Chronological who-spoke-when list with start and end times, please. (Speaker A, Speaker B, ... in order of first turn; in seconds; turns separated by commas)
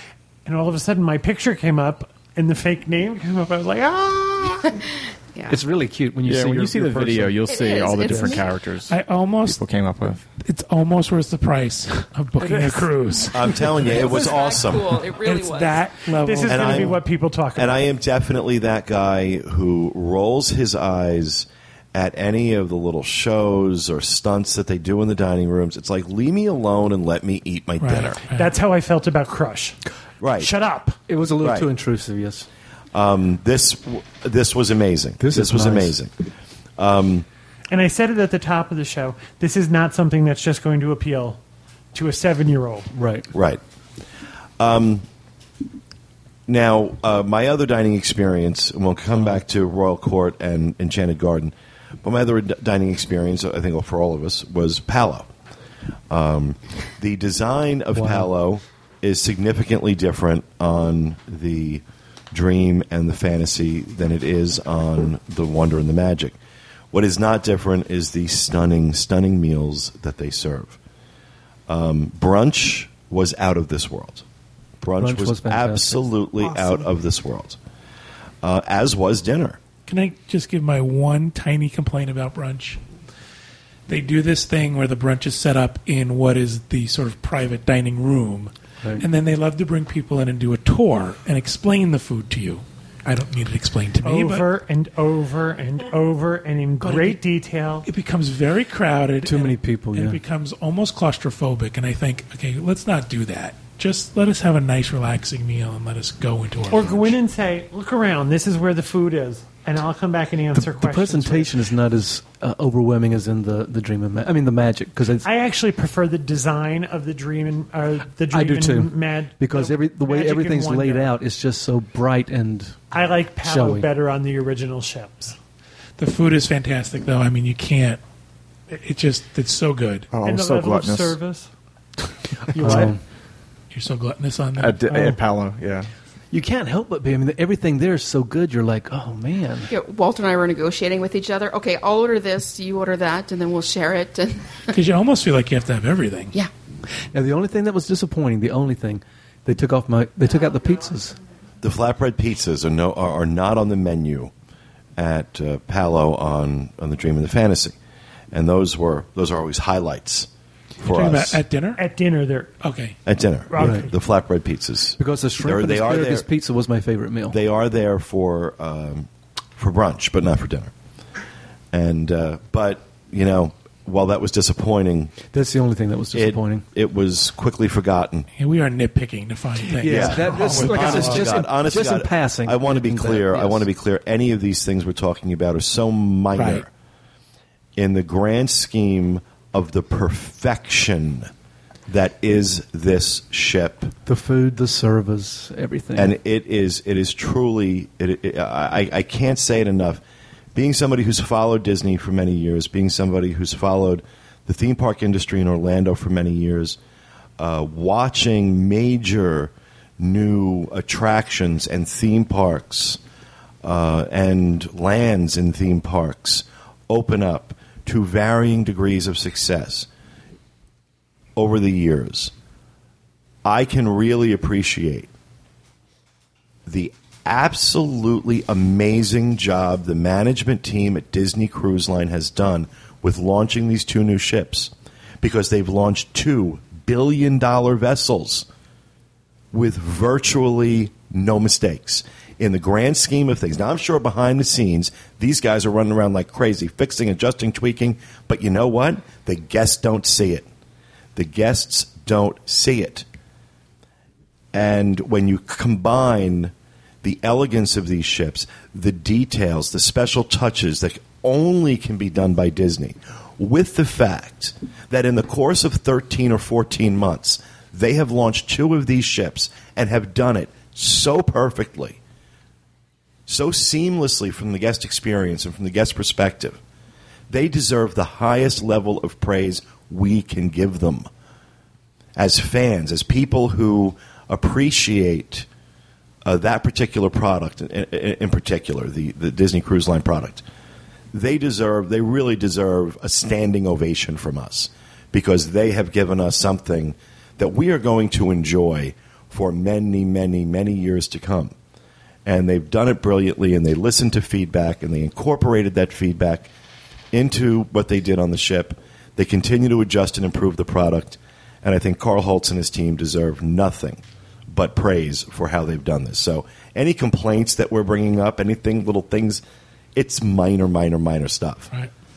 Speaker A: 0.4-4.7, Speaker B: 5.5-8.4, Speaker C: 6.2-8.9, Speaker D: 7.5-8.5, Speaker E: 8.9-9.6, Speaker C: 9.6-10.2, Speaker E: 10.4-14.1, Speaker A: 12.4-12.8, Speaker F: 13.3-15.0, Speaker D: 13.8-15.9, Speaker E: 15.2-17.0, Speaker A: 16.2-17.9, Speaker F: 16.5-17.0, Speaker F: 17.5-28.2, Speaker E: 27.8-28.5, Speaker A: 28.2-29.8, Speaker F: 30.2-30.5, Speaker A: 30.4-31.0, Speaker B: 31.1-32.5, Speaker F: 31.4-31.7, Speaker F: 32.9-36.1, Speaker B: 35.2-36.0, Speaker F: 36.8-37.2, Speaker A: 37.7-41.4, Speaker A: 41.9-42.9, Speaker B: 42.9-43.3, Speaker F: 43.3-43.6, Speaker F: 44.6-45.0, Speaker F: 46.5-55.3, Speaker F: 56.1-66.3, Speaker B: 57.9-58.3, Speaker F: 66.9-70.8, Speaker F: 71.7-74.2, Speaker F: 74.8-77.6, Speaker B: 75.0-76.1, Speaker A: 76.4-76.9, Speaker F: 78.4-79.6, Speaker E: 79.9-82.8, Speaker E: 83.9-94.5, Speaker A: 94.0-97.9, Speaker E: 96.8-97.2, Speaker E: 97.8-107.1, Speaker B: 99.2-100.2, Speaker A: 106.7-111.5, Speaker B: 110.5-115.3, Speaker A: 115.2-121.1, Speaker B: 118.3-122.8, Speaker A: 122.9-125.3, Speaker B: 123.4-123.9, Speaker E: 126.0-128.0, Speaker E: 128.7-130.1, Speaker C: 130.1-131.2, Speaker A: 130.2-131.5, Speaker A: 132.5-133.0, Speaker B: 132.6-133.0, Speaker E: 133.7-134.8, Speaker C: 134.6-135.9, Speaker B: 136.3-139.7, Speaker D: 139.7-144.7, Speaker E: 144.7-146.3, Speaker B: 147.1-151.2, Speaker F: 151.6-154.3, Speaker F: 155.0-157.8, Speaker F: 158.3-160.3, Speaker F: 160.8-161.4, Speaker E: 160.8-161.8, Speaker A: 161.8-162.6, Speaker E: 162.6-163.0, Speaker F: 163.1-166.2, Speaker A: 163.5-163.9, Speaker B: 163.6-163.9, Speaker B: 165.0-167.4, Speaker F: 167.3-170.7, Speaker F: 171.7-175.2, Speaker B: 175.3-176.7, Speaker F: 176.1-178.3, Speaker E: 178.4-181.3, Speaker B: 179.7-183.7, Speaker F: 179.8-186.7, Speaker E: 186.3-186.6, Speaker F: 187.8-191.3, Speaker F: 191.9-193.9, Speaker B: 194.1-196.1, Speaker F: 195.9-200.0, Speaker F: 200.5-206.8, Speaker F: 207.4-213.0, Speaker F: 213.6-219.9, Speaker F: 221.3-222.3, Speaker F: 223.4-225.1, Speaker F: 226.7-238.5, Speaker F: 239.5-250.5, Speaker F: 251.2-253.1, Speaker F: 254.5-256.5, Speaker F: 257.0-272.0, Speaker F: 273.3-276.6, Speaker F: 277.3-281.1, Speaker F: 282.1-285.5, Speaker F: 286.2-290.4, Speaker F: 291.1-301.5, Speaker F: 302.2-306.5, Speaker F: 307.1-319.4, Speaker F: 319.9-321.7